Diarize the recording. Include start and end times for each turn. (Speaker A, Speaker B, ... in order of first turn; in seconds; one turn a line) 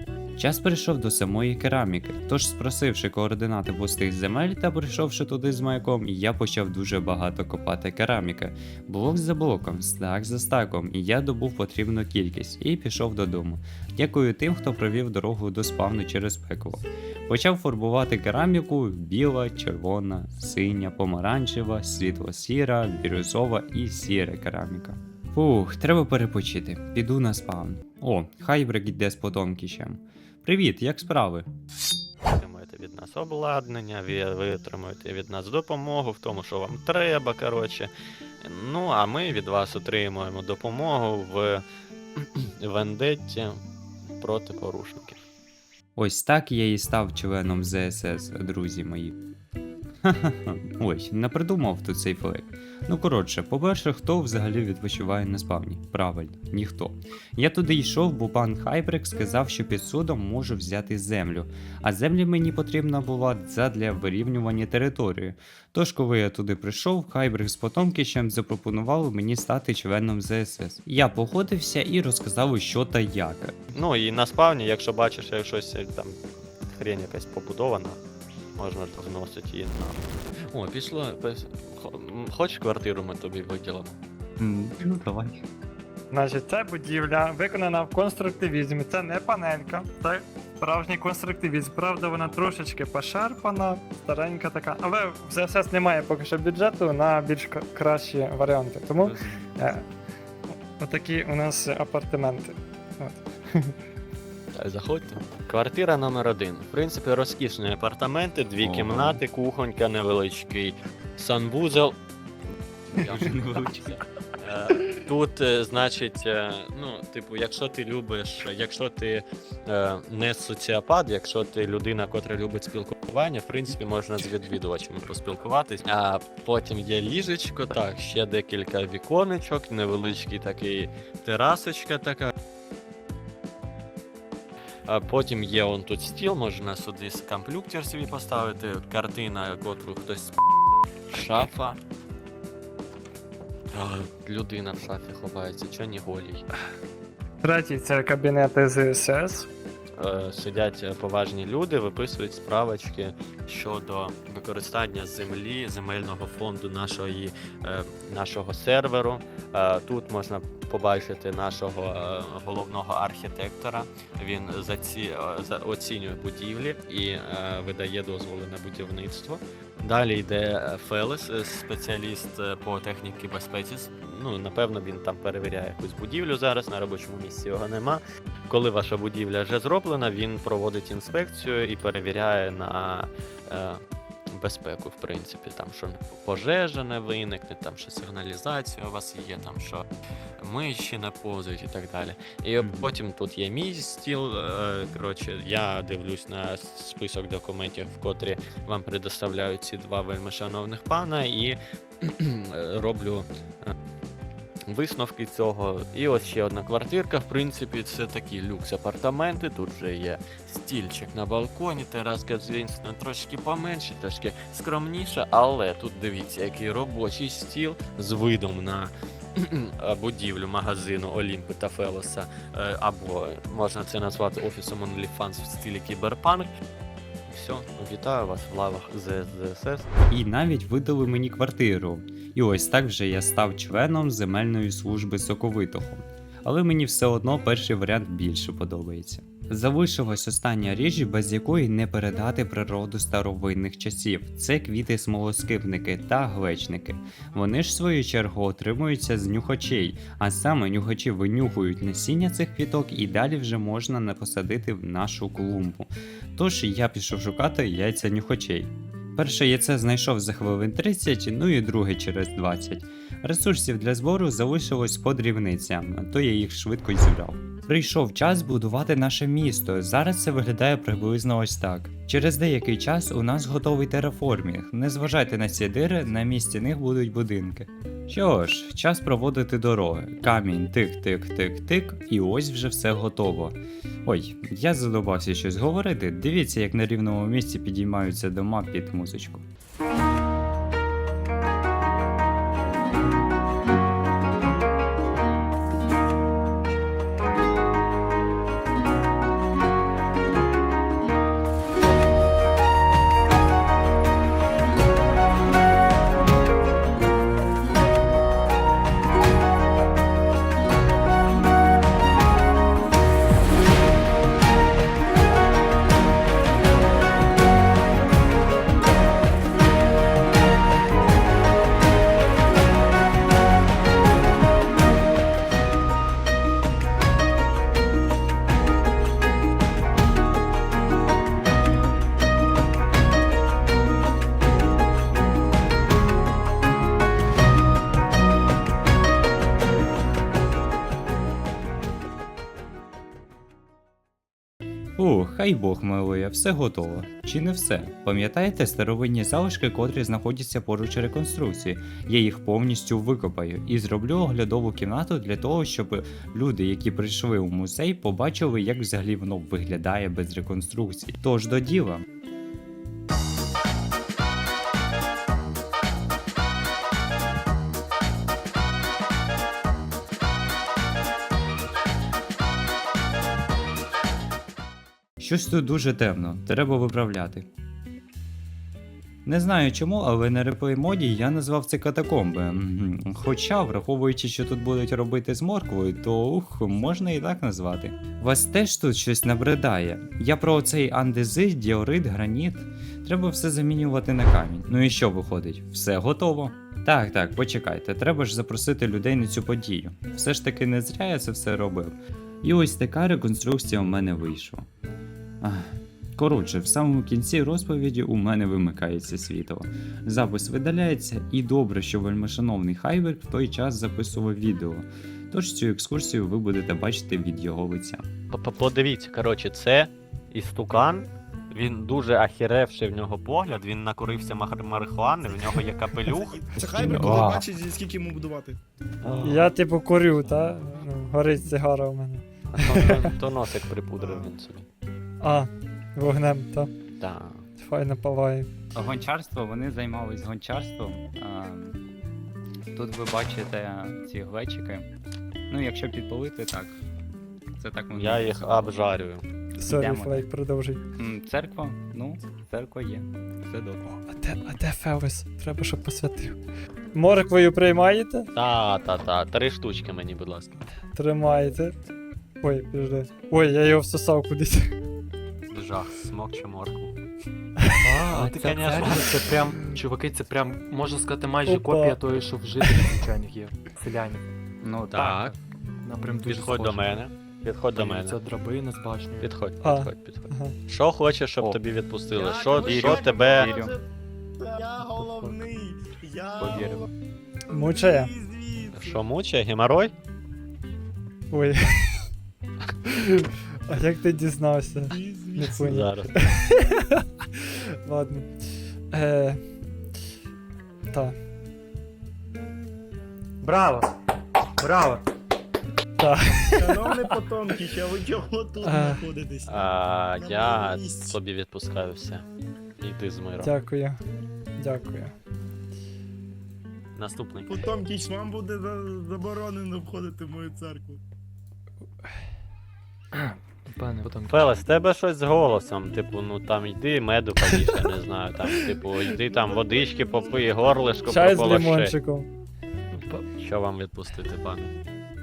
Speaker A: 0.4-31.5
Speaker B: 32.3-37.9
Speaker B: 38.4-41.6
Speaker B: 42.1-43.6
Speaker B: 44.1-45.2
Speaker A: 46.0-49.1
Speaker A: 50.0-73.6
Speaker B: 73.7-76.2
Speaker B: 76.7-78.0
Speaker B: 78.6-84.0
Speaker A: 84.4-85.5
Speaker C: 86.1-99.8
Speaker A: 99.0-99.8
Speaker C: 100.7-103.7
Speaker B: 104.5-111.9
Speaker A: 108.6-109.2
Speaker A: 112.9-114.0
Speaker B: 112.9-132.3
Speaker B: 134.8-140.3
Speaker B: 141.1-141.8
Speaker B: 143.7-146.4
Speaker C: 147.4-149.5
Speaker B: 150.0-189.8
Speaker B: 190.4-203.7
Speaker A: 192.6-192.9
Speaker B: 204.7-226.5
Speaker B: 227.3-229.9
Speaker A: 230.1-289.4
Speaker A: 345.0-362.0
Speaker A: 375.2-377.5
Speaker A: 379.2-404.7
Speaker A: 405.4-418.1
Speaker B: 418.3-427.4
Speaker D: 426.0-428.6
Speaker A: 426.8-427.4
Speaker B: 429.0-429.5
Speaker C: 429.2-433.0
Speaker B: 432.5-434.7
Speaker D: 434.0-434.3
Speaker C: 435.2-436.7
Speaker B: 437.0-437.4
Speaker C: 437.6-438.5
Speaker A: 438.7-441.8
Speaker A: 442.7-444.9
Speaker A: 445.5-446.8
Speaker A: 447.6-448.8
Speaker B: 447.9-449.2
Speaker C: 449.6-450.8
Speaker A: 449.6-450.2
Speaker A: 450.9-453.9
Speaker C: 453.9-456.4
Speaker C: 456.9-458.3
Speaker B: 458.3-460.6
Speaker C: 460.9-461.8
Speaker C: 462.4-464.7
Speaker B: 465.5-466.9
Speaker E: 467.8-474.2
Speaker B: 468.1-469.6
Speaker C: 471.4-472.0
Speaker A: 474.6-475.1
Speaker B: 474.9-475.3
Speaker E: 474.9-477.0
Speaker B: 476.2-478.2
Speaker E: 477.7-479.3
Speaker B: 479.2-483.5
Speaker C: 479.6-480.5
Speaker D: 482.1-483.9
Speaker A: 482.5-483.7
Speaker D: 484.4-486.9
Speaker E: 485.1-485.3
Speaker A: 486.4-486.9
Speaker D: 487.5-489.0
Speaker C: 487.5-488.1
Speaker B: 488.7-489.9
Speaker C: 491.3-492.1
Speaker C: 492.9-498.4
Speaker D: 494.9-495.8
Speaker B: 495.6-496.1
Speaker C: 498.9-499.5
Speaker E: 503.4-503.9
Speaker E: 504.6-505.0
Speaker C: 506.0-507.0
Speaker D: 506.6-511.2
Speaker C: 508.6-509.0
Speaker B: 509.4-512.2
Speaker B: 512.8-513.5
Speaker C: 513.4-514.0
Speaker C: 514.6-515.1
Speaker B: 516.9-517.6
Speaker D: 517.5-521.0
Speaker E: 523.1-524.5
Speaker B: 524.3-531.9
Speaker D: 529.3-531.0
Speaker C: 531.0-532.3
Speaker E: 532.9-533.3
Speaker B: 533.4-534.7